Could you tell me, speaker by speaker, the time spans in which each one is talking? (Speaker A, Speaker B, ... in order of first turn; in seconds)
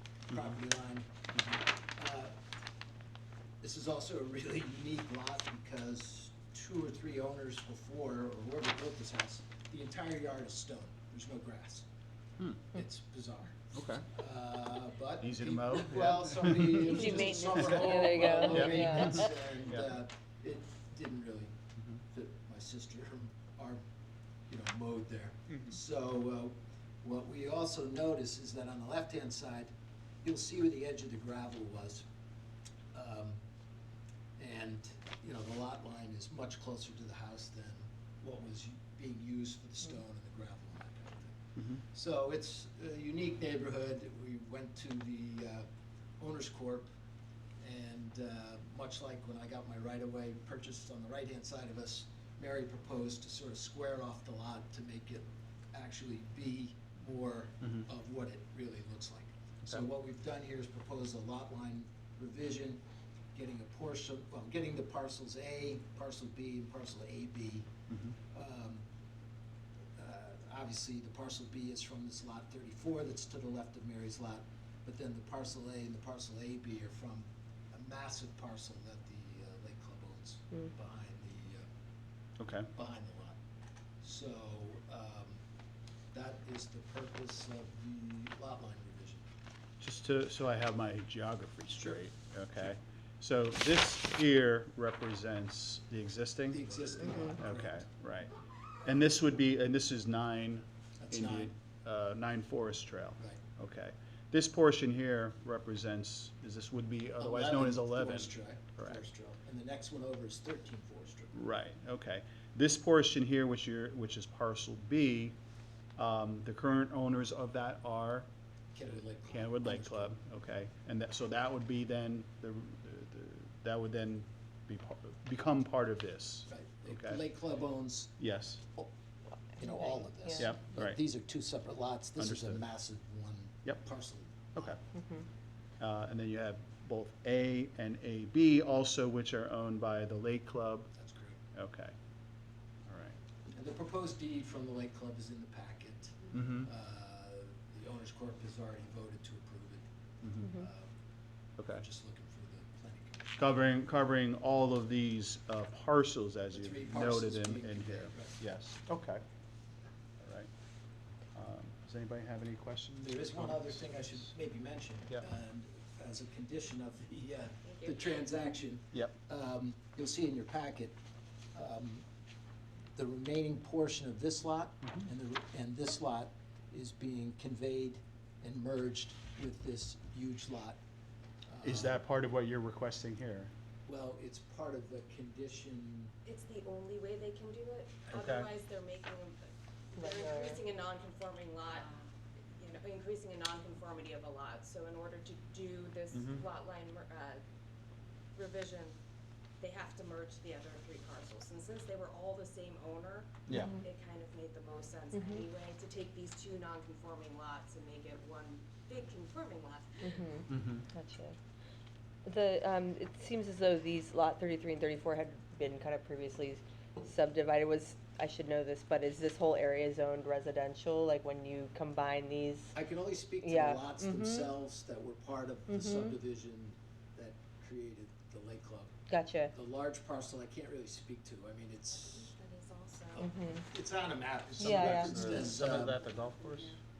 Speaker A: 0.3-2.3, 3.6-11.8, 12.7-21.5, 22.1-23.8, 24.5-29.7, 30.2-32.0, 32.9-33.4, 34.4-45.7, 46.2-46.9, 47.6-62.8, 63.3-67.7, 68.3-68.8, 70.0-81.7, 82.7-83.4, 84.0-85.4, 86.1-89.2, 96.5-97.8, 101.0-101.5, 107.2-111.4, 118.7-120.1, 126.5-128.1, 129.5-134.8, 140.9-141.4, 143.5-149.8, 150.4-150.9, 151.7-153.5, 156.5-158.4, 163.0-170.9, 171.5-172.0, 172.9-180.8, 181.5-182.0, 183.8-186.1, 222.7-228.9, 229.5-232.3, 233.1-236.0
Speaker B: 0.3-0.6, 12.4-12.8, 13.7-14.1, 15.2-19.9, 25.5-25.8, 41.5-41.8, 67.9-68.2, 82.4-82.7, 89.8-98.3, 98.8-109.0, 111.3-115.3, 116.0-118.3, 119.3-127.2, 128.2-128.6, 130.4-131.0, 132.2-132.6, 135.8-140.9, 141.5-141.9, 142.9-143.2, 146.3-146.7, 150.2-150.5, 151.6-151.8, 153.4-159.2, 160.2-160.5, 161.3-163.9, 174.8-175.1, 181.6-183.5, 188.1-188.5, 196.1-196.4, 203.5-203.7, 210.5-210.8, 234.6-236.8
Speaker C: 16.8-19.3, 134.9-135.2, 150.4-150.7, 190.0-190.6, 203.5-203.8, 205.1-205.4, 210.0-211.3, 212.2-222.7, 223.4-224.5, 225.7-226.1, 229.1-229.5, 233.2-233.6, 234.6-235.5
Speaker D: 167.6-168.1, 186.2-189.4, 189.9-197.4, 198.3-198.9, 199.6-210.3, 231.9-233.3